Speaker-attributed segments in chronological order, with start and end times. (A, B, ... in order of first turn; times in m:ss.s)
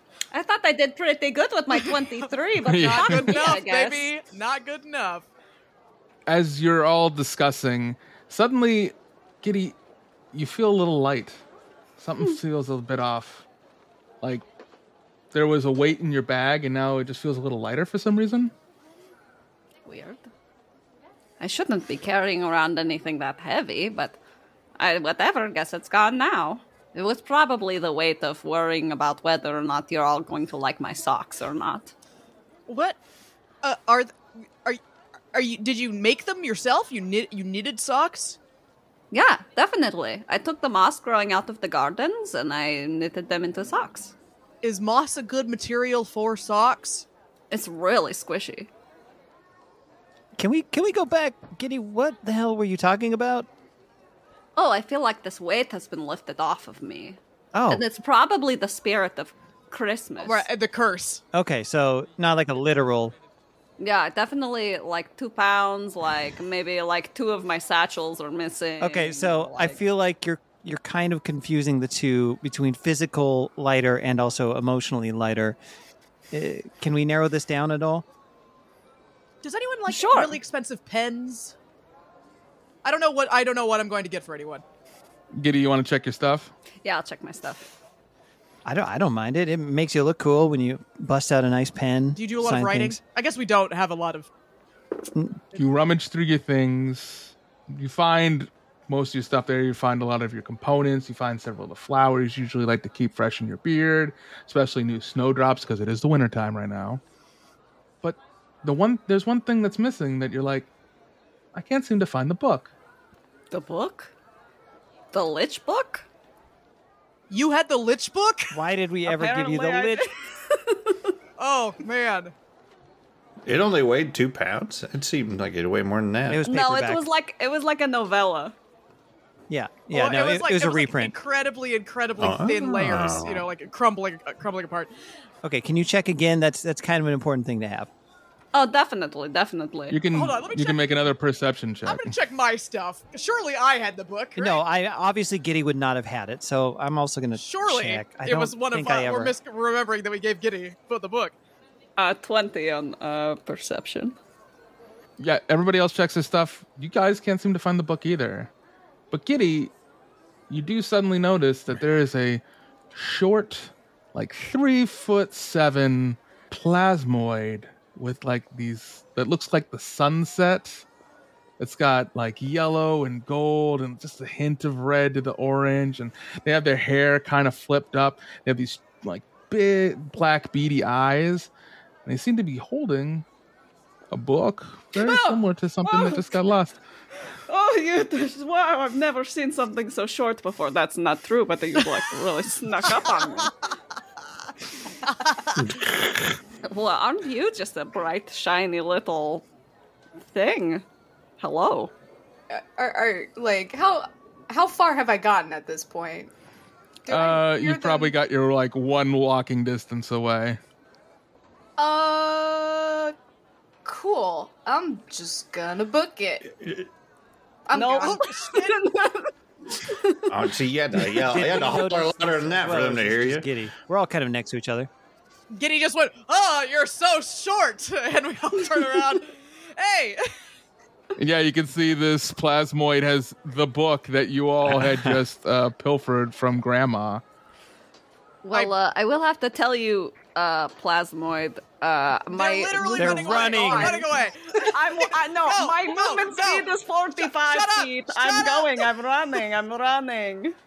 0:00.3-0:04.1 A
0:02.6-0:03.5 B
0:02.8-0:05.2 C
0:06.3-0:09.8 B
0:10.3-0:11.4 B
0:12.0-0:13.4 B
0:15.3-0:18.5 B
0:19.8-0:20.2 A
0:21.4-0:24.2 A
0:24.8-0:31.9 A
0:32.7-0:33.0 C
0:33.6-0:34.8 C
0:35.3-0:38.4 C
0:39.1-0:44.1 A
0:44.6-0:47.1 C
0:47.5-0:48.7 A
0:50.4-0:53.5 D
0:54.6-1:00.5 A
0:57.5-0:57.8 D
1:00.2-1:01.2 C
1:01.3-1:03.1 D
1:03.8-1:09.8 A
1:08.8-1:15.6 D
1:16.3-1:18.0 D
1:19.4-1:21.5 C
1:19.9-1:20.4 A
1:22.8-1:24.6 C
1:25.4-1:26.5 B
1:26.8-1:27.7 A
1:28.6-1:33.0 D
1:32.1-1:34.3 C
1:35.5-1:47.0 B
1:48.0-1:50.7 B
1:51.5-1:52.7 B
1:53.5-1:54.1 A
1:55.1-1:56.1 A
1:57.3-1:58.5 C
1:58.5-2:00.1 D
1:59.0-2:01.2 A
2:01.4-2:02.3 C
2:03.5-2:06.4 E
2:06.3-2:07.0 D
2:06.4-2:08.6 A
2:09.5-2:11.1 D
2:09.9-2:14.9 C
2:12.2-2:13.5 E
2:15.4-2:17.9 D
2:18.5-2:20.0 A
2:19.9-2:22.2 B
2:20.1-2:21.0 C
2:21.8-2:24.6 C
2:24.4-2:29.4 D
2:27.4-2:31.4 C
2:32.0-2:34.2 A
2:35.2-2:38.5 B
2:39.1-2:39.7 B
2:40.5-2:42.4 B
2:42.9-2:50.8 B
2:51.6-3:01.5 B
3:02.0-3:03.2 B
3:04.1-3:06.8 B
3:05.8-3:06.2 A
3:07.5-3:13.5 A
3:13.0-3:13.5 C
3:15.1-3:15.6 C
3:15.6-3:16.1 E
3:16.6-3:19.5 A
3:20.3-3:20.8 A
3:21.4-3:21.9 A
3:22.5-3:26.3 F
3:27.0-3:28.1 F
3:27.1-3:30.6 B
3:31.8-3:33.1 F
3:33.8-3:36.5 F
3:36.6-3:36.9 E
3:37.7-3:38.2 F
3:37.7-3:40.5 A
3:38.0-3:38.8 C
3:40.3-3:43.5 E
3:41.1-3:44.9 D
3:45.5-3:50.3 C
3:51.2-3:57.2 B
3:54.6-3:55.2 E
3:58.4-4:04.0 A
4:02.3-4:08.9 C
4:03.0-4:04.0 D
4:04.7-4:10.6 A